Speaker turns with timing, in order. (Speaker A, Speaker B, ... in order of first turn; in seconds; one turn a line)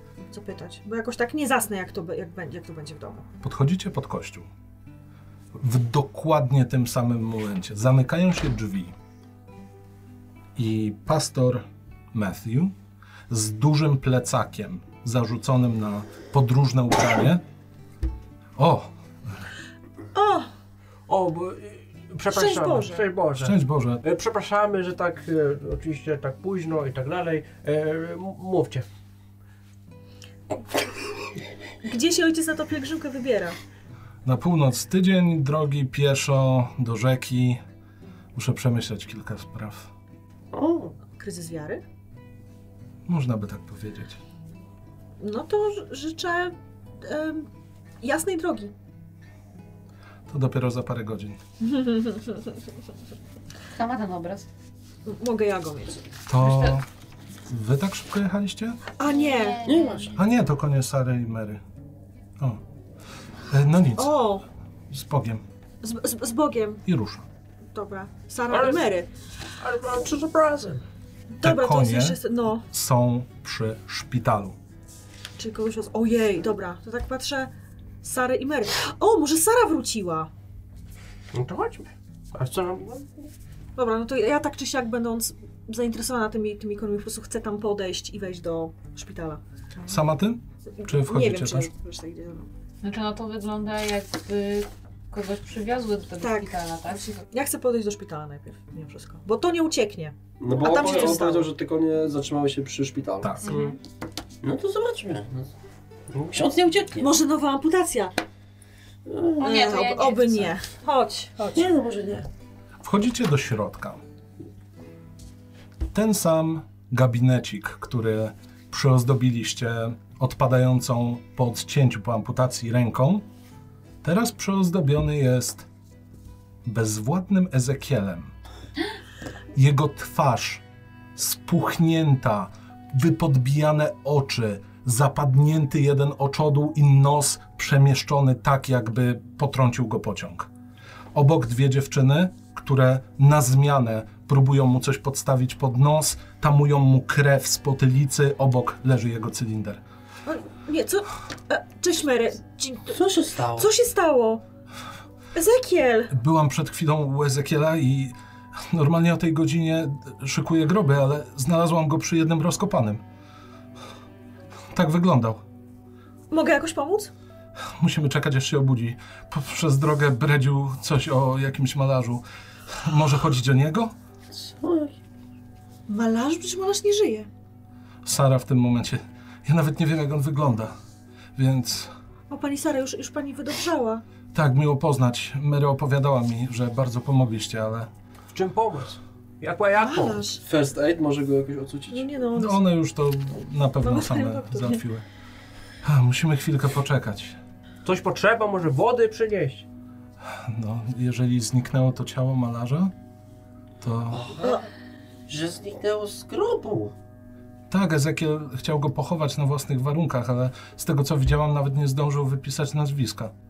Speaker A: 0.2-3.2
Speaker B: 3.4-4.5
Speaker B: 5.5-8.9
Speaker B: 10.6-12.7
Speaker B: 13.3-17.4
Speaker B: 18.6-19.4
Speaker A: 20.1-20.5
Speaker C: 21.1-28.9
Speaker A: 22.3-23.0
Speaker B: 23.4-24.0
Speaker A: 31.8-33.5
Speaker B: 34.2-37.6
Speaker B: 38.3-39.9
Speaker D: 40.5-40.9
Speaker A: 41.2-41.8
Speaker B: 43.0-44.2
Speaker A: 45.2-47.5
Speaker A: 48.0-48.7
Speaker B: 50.3-51.4
Speaker A: 51.6-52.5
Speaker E: 53.7-54.5
Speaker A: 55.0-56.0
Speaker B: 56.3-56.8
Speaker E: 56.4-56.8
Speaker B: 57.5-58.8
Speaker A: 59.0-59.6
Speaker E: 59.1-60.2
Speaker D: 59.6-60.1
Speaker B: 60.1-61.6
Speaker B: 63.5-64.2
Speaker A: 64.0-64.4
Speaker B: 64.9-65.4
Speaker A: 65.8-66.8
Speaker B: 66.8-67.3
Speaker A: 67.7-69.1
Speaker C: 68.5-68.9
Speaker C: 69.6-70.8
Speaker A: 71.3-72.6
Speaker B: 71.4-74.5
Speaker A: 75.4-80.3
Speaker C: 81.3-83.3
Speaker A: 83.8-90.0
Speaker B: 89.9-91.7
Speaker A: 90.8-92.5
Speaker E: 92.8-97.2
Speaker A: 96.2-101.5
Speaker D: 100.4-103.5
Speaker E: 103.4-103.8
Speaker C: 103.5-103.7
Speaker D: 104.4-105.5
Speaker D: 106.2-107.1
Speaker A: 107.0-108.1
Speaker D: 109.0-109.6
Speaker E: 109.4-110.5
Speaker A: 109.4-111.7
Speaker D: 111.5-112.3
Speaker B: 112.8-114.0
Speaker B: 115.9-123.2
Speaker B: 124.0-125.7
Speaker B: 126.6-128.3
Speaker B: 129.5-130.6
Speaker B: 131.1-140.5
Speaker B: 141.1-149.8
Speaker A: 150.2-153.0
Speaker D: 152.9-153.7
Speaker A: 153.6-154.4
Speaker A: 155.3-156.1
Speaker B: 156.1-158.2
Speaker B: 158.7-163.0
Speaker B: 164.7-165.4
Speaker A: 166.3-167.1
Speaker B: 167.8-173.9
Speaker D: 174.3-174.9
Speaker A: 175.9-177.3
Speaker B: 178.0-180.7
Speaker B: 181.3-181.9
Speaker A: 182.3-184.0
Speaker B: 184.3-187.9
Speaker C: 188.3-190.2
Speaker A: 189.8-190.4
Speaker D: 190.4-192.1
Speaker A: 191.9-192.6
Speaker B: 192.3-195.0
Speaker A: 193.8-194.8
Speaker B: 195.8-197.4
Speaker C: 197.8-199.7
Speaker B: 200.2-202.9
Speaker B: 203.8-204.3
Speaker D: 204.1-204.6
Speaker D: 205.3-206.9
Speaker B: 207.7-213.3